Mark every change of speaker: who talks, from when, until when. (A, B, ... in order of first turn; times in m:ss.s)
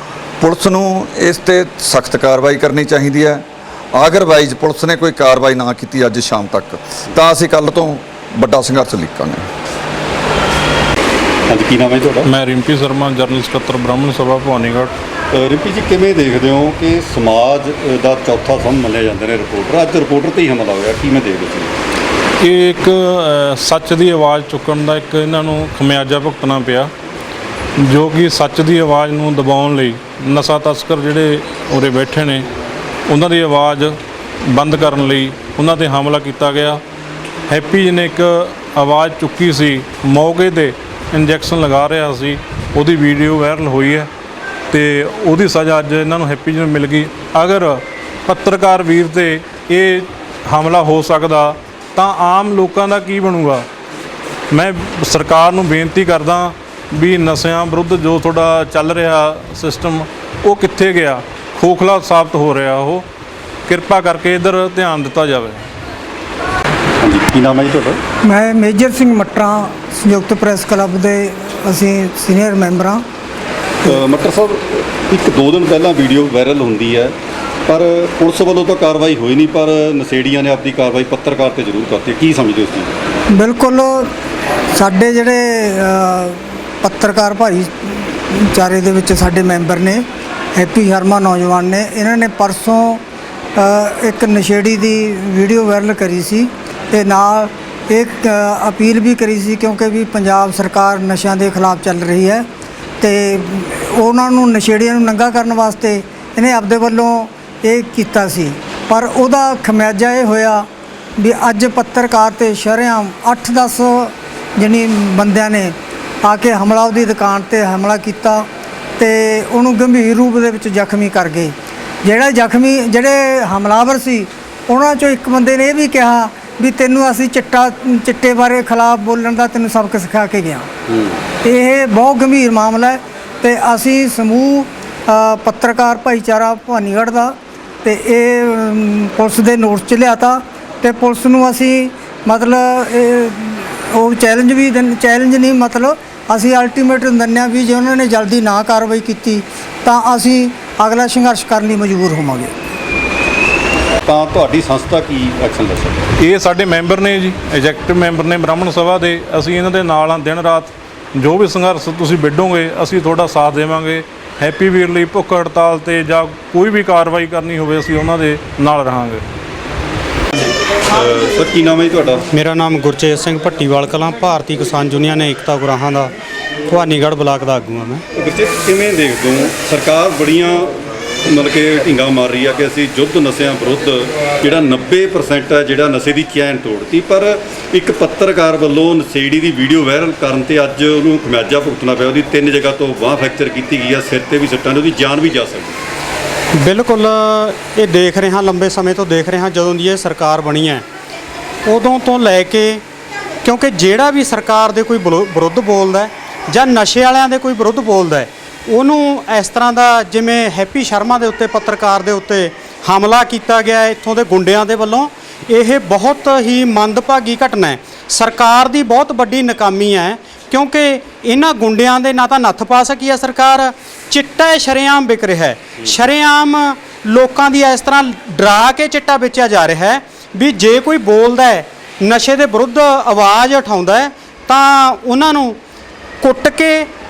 0:00.4-0:09.4 A
0:11.5-0:12.3 B
0:12.2-0:14.9 C
0:15.3-0:21.7 B
0:22.4-0:26.9 C
0:27.8-0:32.4 C
0:33.1-0:36.8 C
0:37.5-0:44.1 C
0:44.7-0:53.6 C
0:54.5-1:03.0 C
1:03.7-1:05.6 C
1:07.0-1:08.0 B
1:08.2-1:13.0 D
1:13.8-1:17.1 B
1:17.7-1:22.9 B
1:23.3-1:24.1 D
1:24.7-1:30.0 D
1:30.5-1:33.0 D
1:33.6-1:42.4 D
1:43.0-1:50.6 D
1:51.2-1:58.4 D
1:59.0-2:01.5 D
2:02.0-2:10.7 D
2:11.4-2:32.5 D
2:34.0-2:36.0 B
2:36.2-2:49.2 C
2:50.4-2:52.2 B
2:52.3-2:56.1 E
2:56.7-2:58.0 E
2:58.1-3:00.7 B
3:01.2-3:15.8 B
3:16.6-3:20.8 E
3:21.6-3:22.8 E
3:23.4-3:55.6 E
3:56.2-3:56.9 E